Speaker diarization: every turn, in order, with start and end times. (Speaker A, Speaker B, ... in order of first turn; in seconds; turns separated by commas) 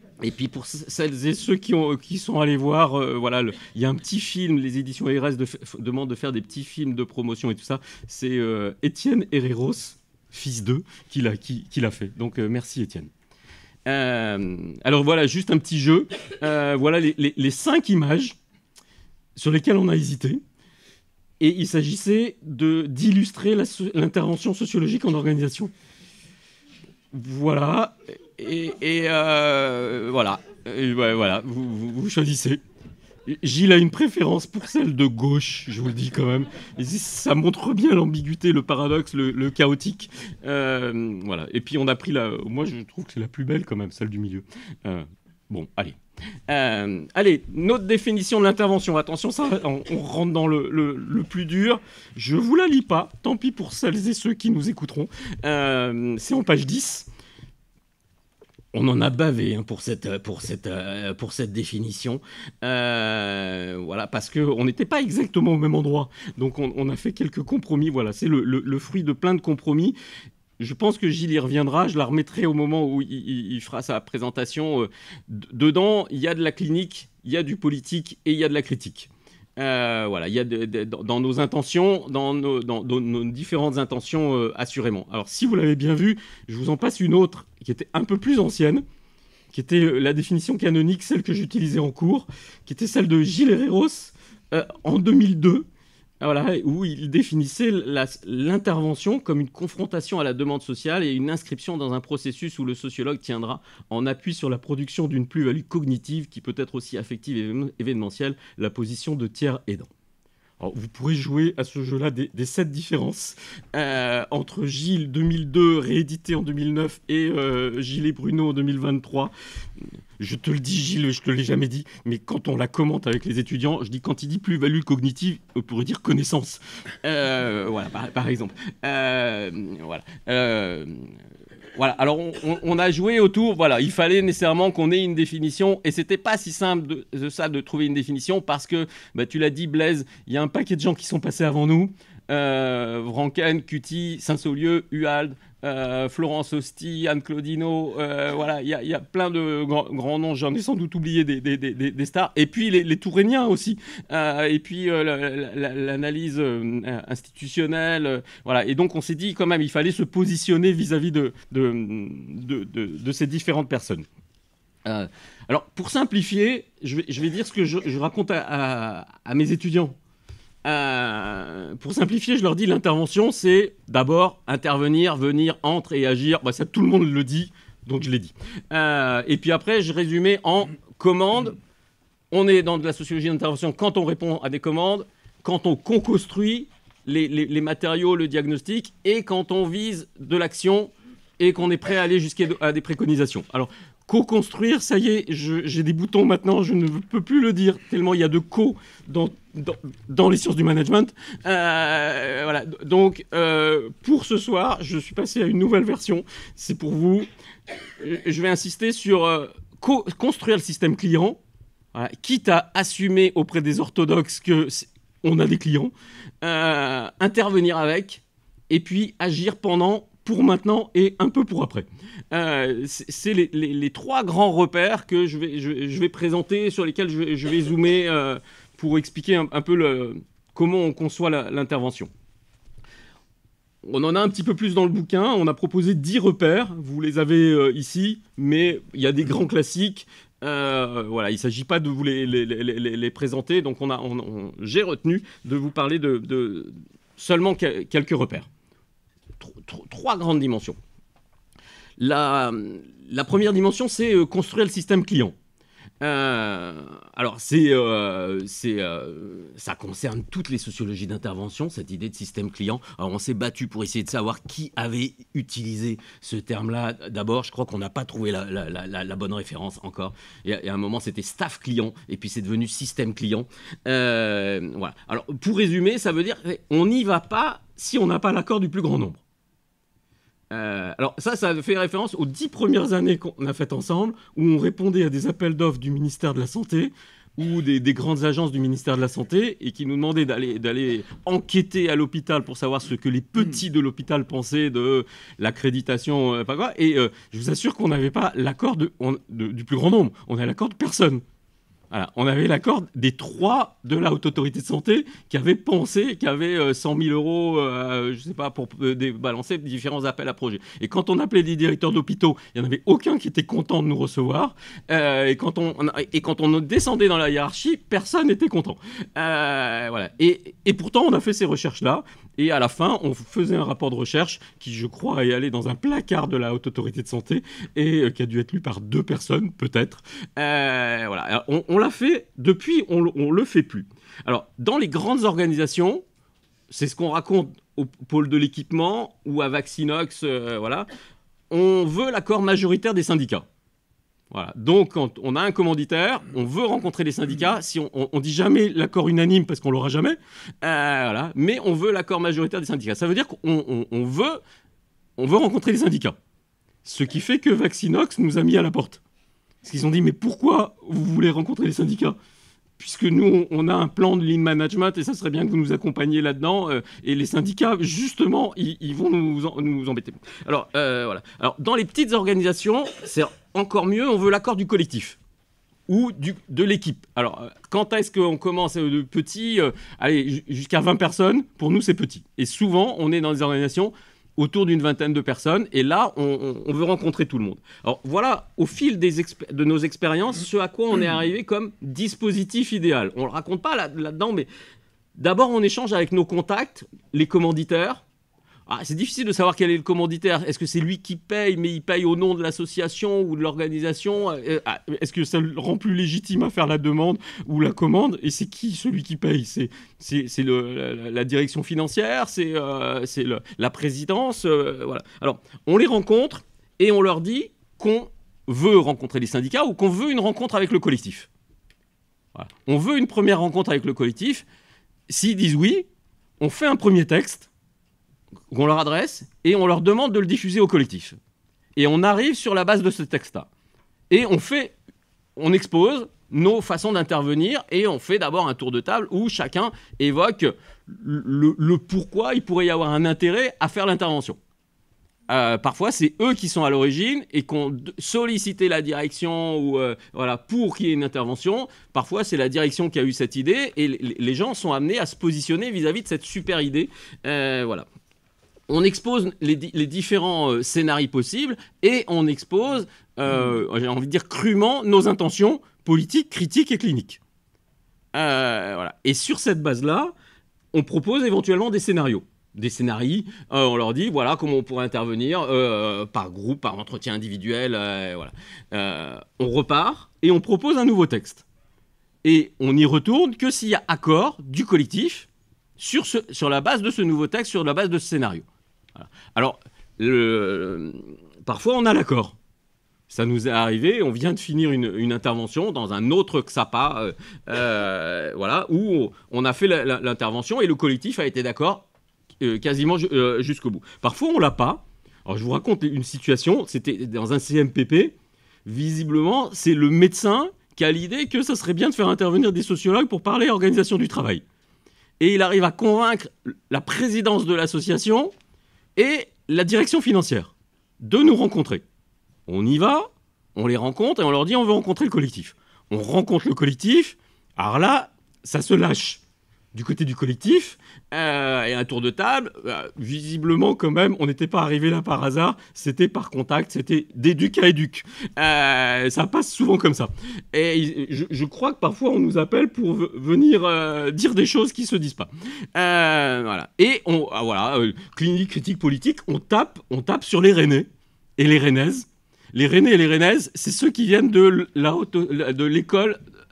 Speaker A: 0.2-13.1, Speaker A: 13.9-18.4, Speaker A: 19.4-20.4, Speaker A: 21.4-25.7, Speaker A: 27.1-32.6, Speaker A: 33.2-57.1, Speaker A: 58.7-70.0, Speaker A: 70.6-88.8, Speaker A: 89.5-95.7, Speaker A: 96.2-109.9, Speaker A: 110.6-119.3, Speaker A: 120.2-131.1, Speaker A: 131.8-164.1, Speaker A: 164.8-169.9, Speaker A: 170.6-181.6, Speaker A: 182.3-207.3, Speaker A: 208.0-211.4, Speaker A: 211.9-232.1, Speaker A: 233.8-248.5, Speaker A: 249.4-250.8, Speaker A: 252.0-255.3, Speaker A: 256.0-279.2, Speaker A: 280.5-301.2, Speaker A: 301.9-336.0, Speaker A: 336.7-340.9, Speaker A: 341.5-343.4, Speaker A: 344.3-354.4, Speaker A: 355.2-356.2, Speaker A: 356.9-359.0, Speaker A: 359.6-362.1, Speaker A: 362.8-375.2, Speaker A: 375.9-394.5, Speaker A: 395.1-398.0, Speaker A: 398.7-421.3, Speaker A: 422.4-424.4, Speaker A: 425.1-425.9, Speaker A: 426.4-427.5, Speaker A: 428.5-431.2, Speaker A: 431.8-433.5, Speaker A: 434.1-434.7, Speaker A: 435.4-444.4, Speaker A: 445.3-457.9, Speaker A: 458.7-467.2, Speaker A: 468.1-470.1, Speaker A: 470.7-481.4, Speaker A: 482.2-485.3, Speaker A: 485.8-492.4, Speaker A: 493.1-501.9, Speaker A: 502.4-514.4, Speaker A: 515.2-518.3, Speaker A: 519.0-521.8, Speaker A: 522.5-529.2, Speaker A: 529.7-556.2